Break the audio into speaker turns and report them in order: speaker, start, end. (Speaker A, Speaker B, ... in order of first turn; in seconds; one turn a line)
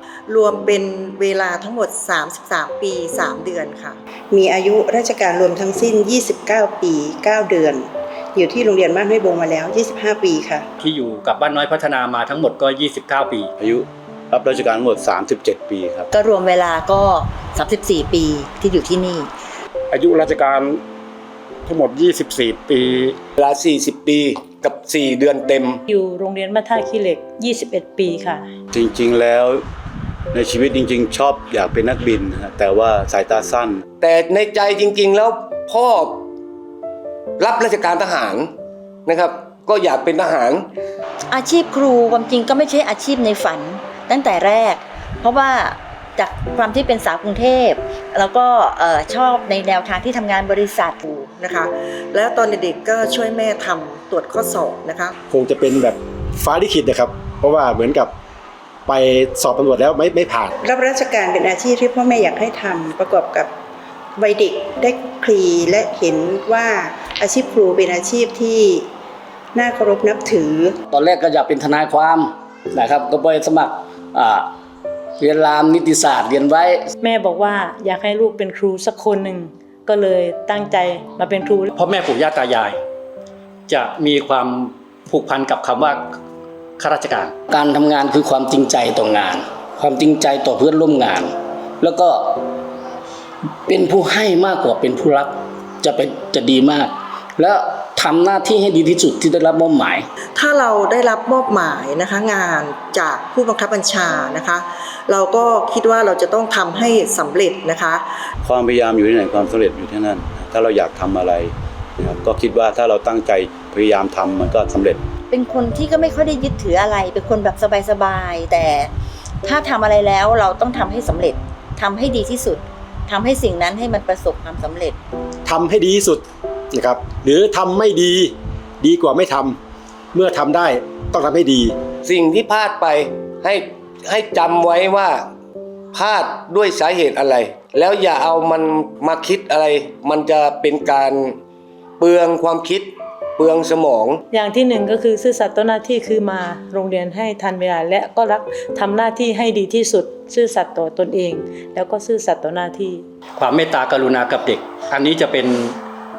Speaker A: 0.3-4.0
Speaker B: 4.3-10.7
Speaker C: 10.8-13.5
Speaker D: 13.6-16.2
Speaker E: 16.1-19.2
Speaker F: 19.9-20.8
Speaker F: 21.7-23.1
Speaker G: 23.4-25.8
Speaker H: 25.9-28.4
Speaker D: 28.7-29.6
Speaker D: 30.3-33.8
Speaker G: 34.0-36.2
Speaker G: 37.4-38.5
Speaker G: 39.0-40.7
Speaker E: 41.3-51.3
Speaker A: 51.3-55.1
Speaker I: 55.3-58.1
Speaker I: 58.9-60.5
Speaker B: 60.6-63.5
Speaker B: 64.2-68.9
Speaker B: 69.5-70.7
Speaker J: 70.9-74.5
Speaker J: 75.2-76.9
Speaker H: 77.0-81.7
Speaker C: 81.7-82.8
Speaker C: 83.7-86.1
Speaker C: 86.8-87.3
Speaker J: 87.5-92.5
Speaker J: 93.7-100.1
Speaker A: 100.3-108.0
Speaker D: 108.4-115.0
Speaker E: 115.3-118.9
Speaker E: 119.4-124.9
Speaker I: 125.5-129.6
Speaker I: 130.1-131.7
Speaker G: 132.0-135.2
Speaker G: 135.9-141.4
Speaker G: 142.0-144.2
Speaker H: 144.3-153.0
Speaker C: 153.4-155.8